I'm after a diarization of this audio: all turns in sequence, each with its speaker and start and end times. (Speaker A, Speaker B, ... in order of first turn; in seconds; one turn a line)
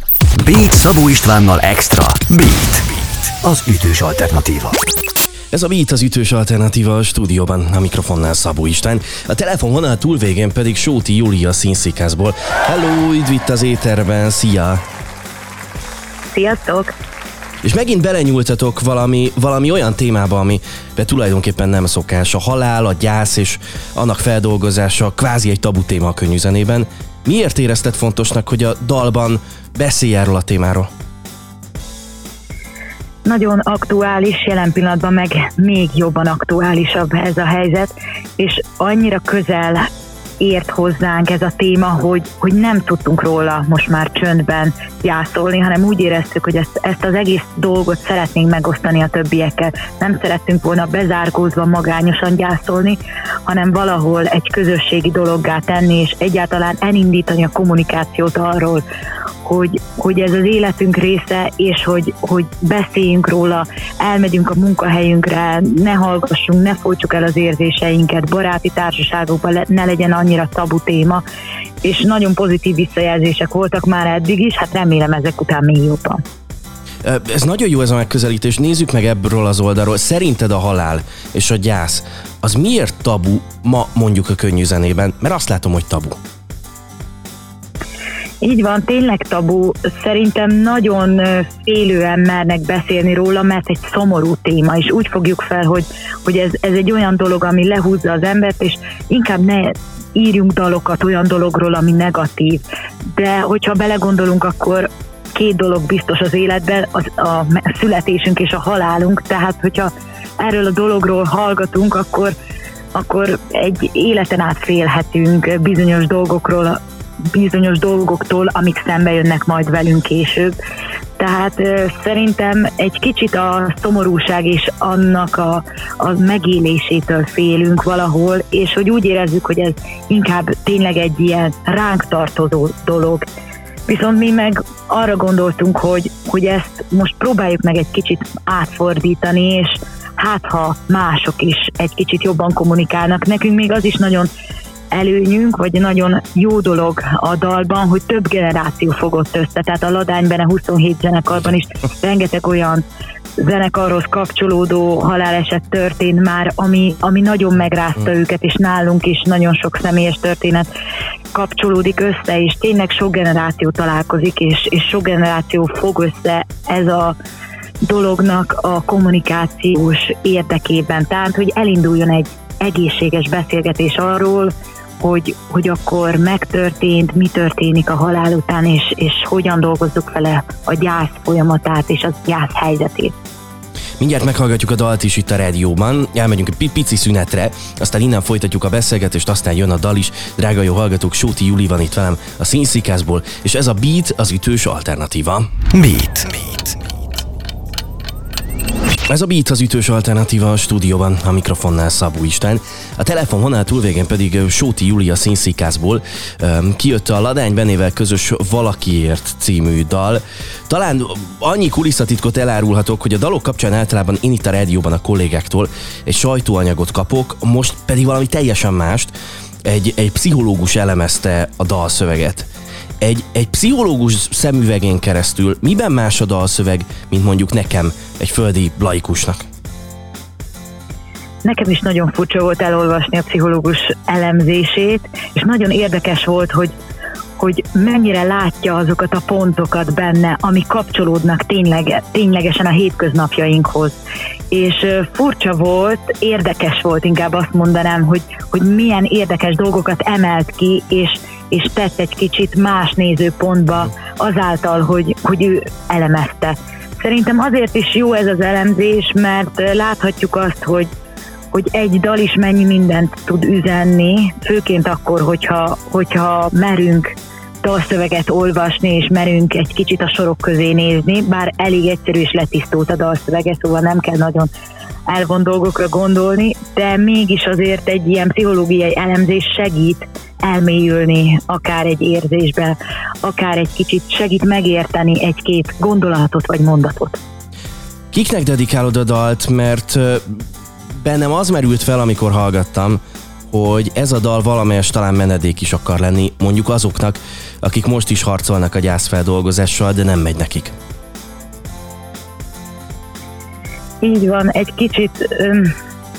Speaker A: 0.4-4.8
Speaker B: 5.5-14.8
Speaker C: 16.3-16.9
Speaker B: 17.6-30.9
Speaker C: 33.2-39.9
Speaker C: 40.4-58.8
Speaker C: 59.4-71.2
Speaker C: 71.8-76.2
Speaker B: 77.0-86.2
Speaker C: 88.4-112.3
Speaker C: 112.9-116.8
Speaker C: 117.3-120.6
Speaker C: 121.2-133.3
Speaker C: 133.9-144.3
Speaker C: 144.9-152.8
Speaker C: 153.4-160.7
Speaker C: 161.3-167.2
Speaker C: 167.8-183.2
Speaker B: 184.0-195.5
Speaker A: 195.7-196.8
Speaker B: 199.1-219.1
Speaker B: 219.7-222.5
Speaker B: 223.0-229.4
Speaker C: 231.4-236.7
Speaker C: 237.4-244.0
Speaker C: 244.5-260.9
Speaker C: 261.5-274.5
Speaker C: 275.1-287.2
Speaker B: 288.1-300.8
Speaker C: 304.0-305.7